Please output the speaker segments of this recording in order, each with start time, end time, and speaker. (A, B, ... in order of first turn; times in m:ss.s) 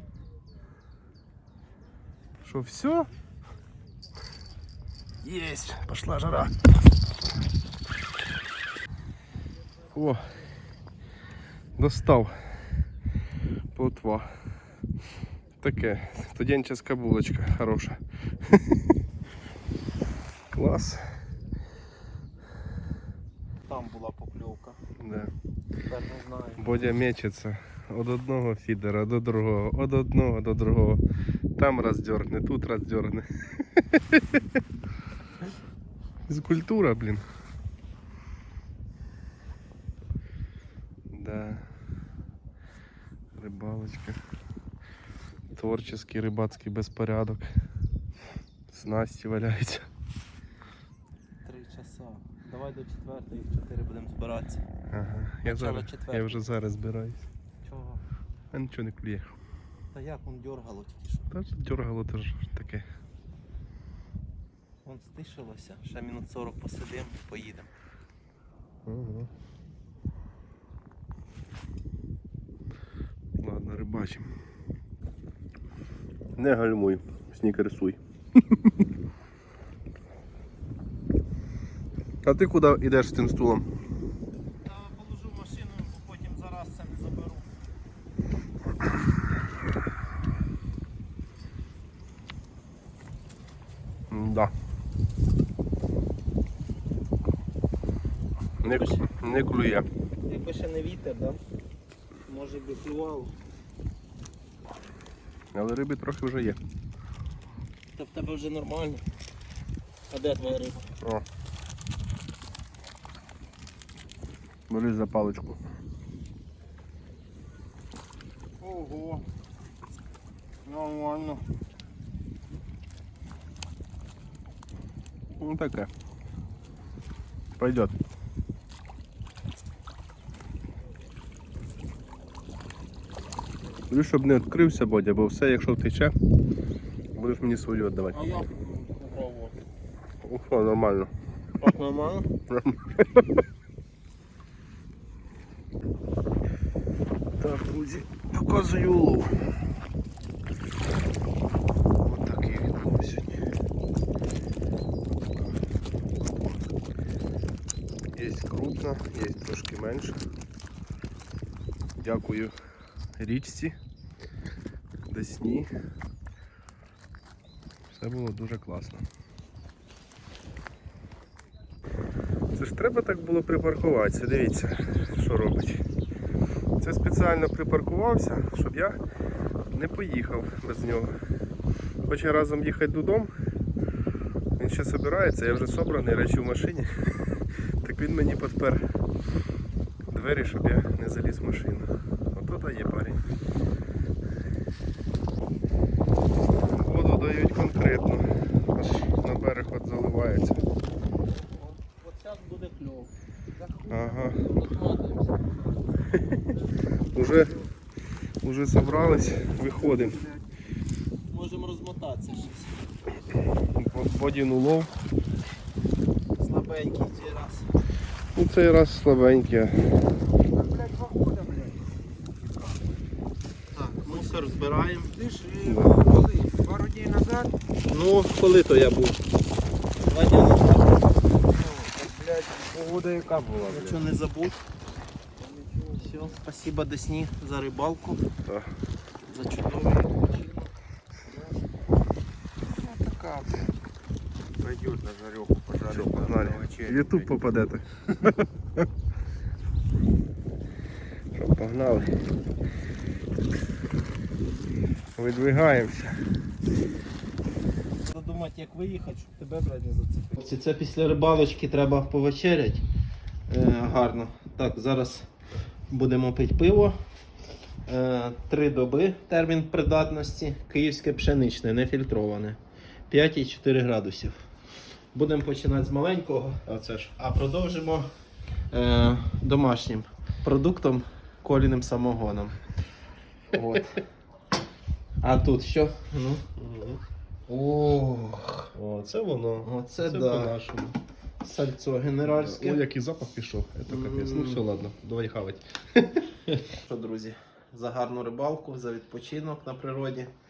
0:02.4-0:03.1 A
0:05.2-0:06.5 A
0:09.9-0:10.4 A
0:11.8-0:12.6 A
0:13.7-0:14.3 A
0:15.6-0:18.6 A
0:20.5-0:21.0 A
0:23.7-0:24.8 B
0:25.0-0:25.3 A
0:25.8-0:26.9 B
0:26.6-0:31.0 A
0:31.6-0:34.4 A
0:36.3-0:37.2 A
0:41.1-0:41.7 A
0:43.4-0:44.2 A
0:45.5-0:47.5 A
0:48.7-0:49.9 A
0:51.4-0:54.6 B
0:54.9-0:57.3 A
0:55.4-0:56.4 B
0:57.6-0:58.0 B
0:58.5-0:59.3 A
0:59.9-1:01.3 B
1:01.3-1:02.9 A
1:04.8-1:07.7 B
1:08.9-1:09.3 A
1:13.4-1:14.3 A
1:16.4-1:18.0 A
1:22.2-1:23.7 A
1:24.6-1:27.5 B
1:34.1-1:34.5 A
1:38.6-1:39.9 A
1:38.6-1:39.0 B
1:40.2-1:41.4 B
1:42.3-1:43.3 B
1:45.5-1:46.6 A
1:48.0-1:49.0 B
1:50.1-1:50.9 B
1:54.7-1:55.6 A
1:58.6-1:59.2 B
2:00.6-2:01.4 B
2:05.4-2:05.9 A
2:07.6-2:07.9 A
2:13.9-2:16.1 A
2:17.2-2:18.2 A
2:18.1-2:19.6 B
2:20.2-2:21.1 A
2:21.6-2:22.3 B
2:22.5-2:23.2 A
2:27.4-2:29.5 A
2:32.0-2:33.4 A
2:35.3-2:35.6 A
2:36.2-2:36.6 A
2:38.1-2:40.2 A
2:42.0-2:42.5 A
2:43.2-2:43.8 A
2:45.1-2:45.7 A
2:47.9-2:49.0 A
2:52.6-2:55.8 A
2:56.8-2:59.0 A
2:59.7-3:01.2 A
3:02.0-3:03.3 A
3:04.6-3:08.8 A
3:10.1-3:13.2 A
3:16.6-3:20.6 A
3:21.4-3:23.1 B
3:23.6-3:25.4 B
3:23.9-3:24.4 A
3:26.1-3:26.4 A
3:27.1-3:27.6 A
3:28.4-3:30.2 A
3:31.3-3:32.8 B
3:33.8-3:34.9 A
3:36.4-3:37.7 B
3:38.4-3:40.0 A
3:40.5-3:41.8 C
3:42.4-3:42.8 C
3:43.7-3:45.2 B
3:44.0-3:44.4 C
3:45.1-3:47.5 C
3:45.6-3:46.2 A
3:47.9-3:49.2 B
3:50.0-3:51.7 B
3:51.6-3:54.0 C
3:53.7-3:54.6 B
3:55.6-3:56.0 C
3:55.9-3:58.2 B
3:58.4-3:58.7 A
3:59.2-4:00.7 B
4:02.8-4:03.6 B
4:04.6-4:07.4 C
4:05.9-4:08.5 A
4:11.3-4:12.1 A
4:15.2-4:16.2 A
4:18.1-4:22.8 B
4:23.5-4:25.3 B
4:25.9-4:27.0 B
4:27.9-4:32.6 B
4:33.1-4:34.4 B
4:35.1-4:38.1 B
4:38.7-4:42.6 B
4:43.5-4:44.0 B
4:45.2-4:46.4 B
4:46.6-4:47.0 A
4:47.5-4:48.7 B
4:48.7-4:51.0 A
4:49.6-4:50.6 B
4:51.4-4:52.8 B
4:52.3-4:56.3 A
4:53.9-4:54.6 B
4:56.6-5:00.3 B